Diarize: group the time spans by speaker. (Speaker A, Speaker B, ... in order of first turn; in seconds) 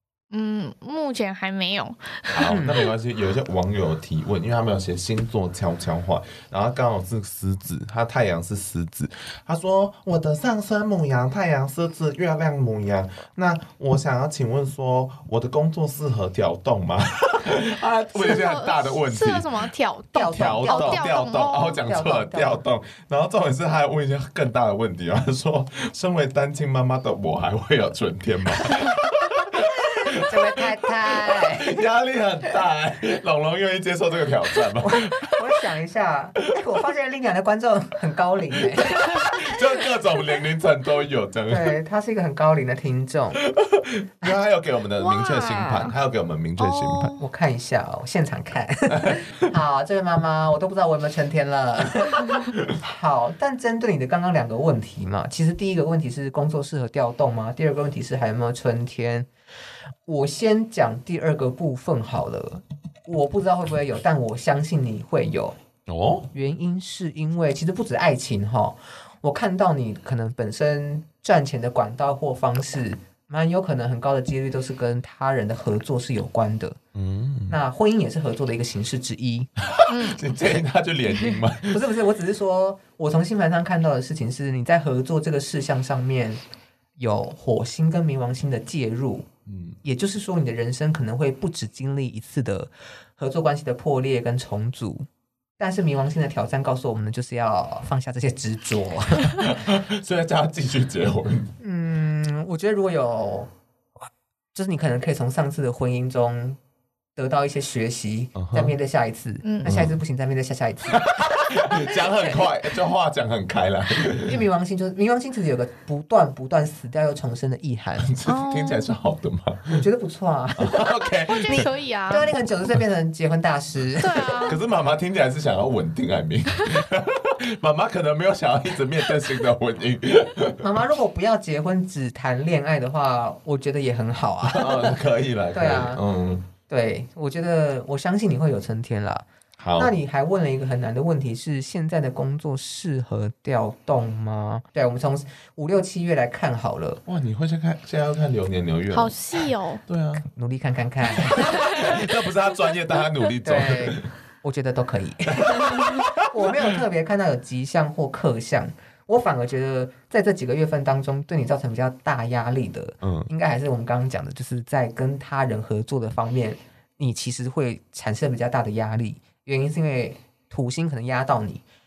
Speaker A: 0.3-2.9, 18.1-21.9, 45.0-46.0, 46.6-47.3, 79.9-80.3, 109.4-109.7, 118.3-118.9, 121.3-122.3, 124.0-124.6, 148.9-149.8
Speaker B: 2.3-19.6, 20.2-35.6, 38.9-41.8, 43.5-47.1, 49.0-49.5, 65.9-66.3, 77.0-77.6, 79.6-81.8, 89.5-89.8, 99.3-101.5, 108.4-108.8, 109.7-110.0, 110.9-114.4, 118.0-119.9, 120.6-121.7, 124.4-130.8, 134.4-136.5, 139.6-139.9, 147.1-150.3, 151.1-154.1, 155.4-156.8, 163.0-163.3
Speaker C: 2.4-2.8, 20.1-21.1, 21.8-22.6, 29.8-31.7, 34.8-39.5, 41.5-43.4, 47.2-59.3, 60.1-65.6, 66.3-76.8, 77.5-79.5, 81.7-86.4, 87.0-89.3, 89.8-95.1, 95.6-99.4, 101.6-103.5, 104.5-106.6, 107.2-111.1, 111.7-112.5, 114.1-118.1, 119.8-120.9, 121.5-124.3, 130.6-135.0, 135.5-136.0, 136.7-147.0, 150.2-151.8, 153.4-171.6